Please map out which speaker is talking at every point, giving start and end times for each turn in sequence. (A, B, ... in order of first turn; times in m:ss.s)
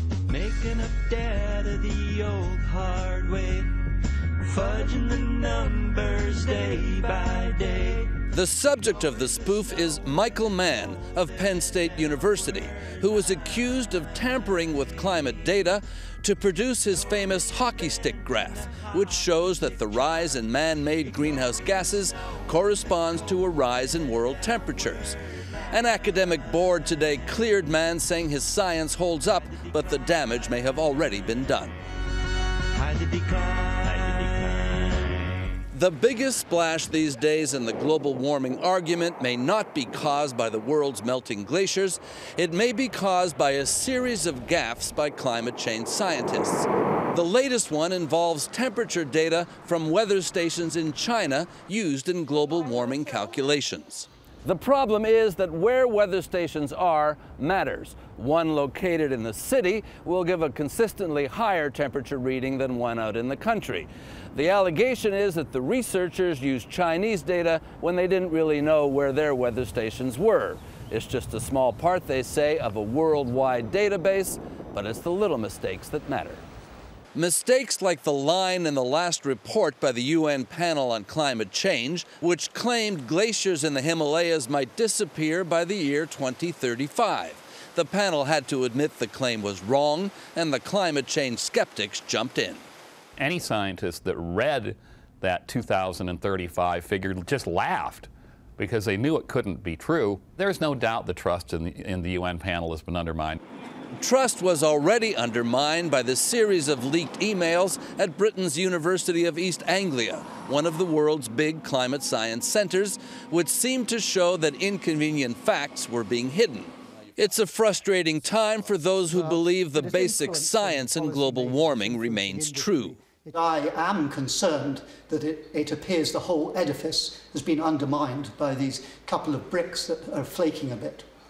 0:00.3-0:03.8 A
0:04.4-0:08.1 A
0:08.1-0:25.2 B
0:25.7-0:31.8 B
0:32.7-0:35.2 A
0:35.7-1:16.4 B
1:17.2-1:32.6 B
1:33.2-1:43.4 C
1:44.0-2:03.0 B
1:59.1-2:11.1 D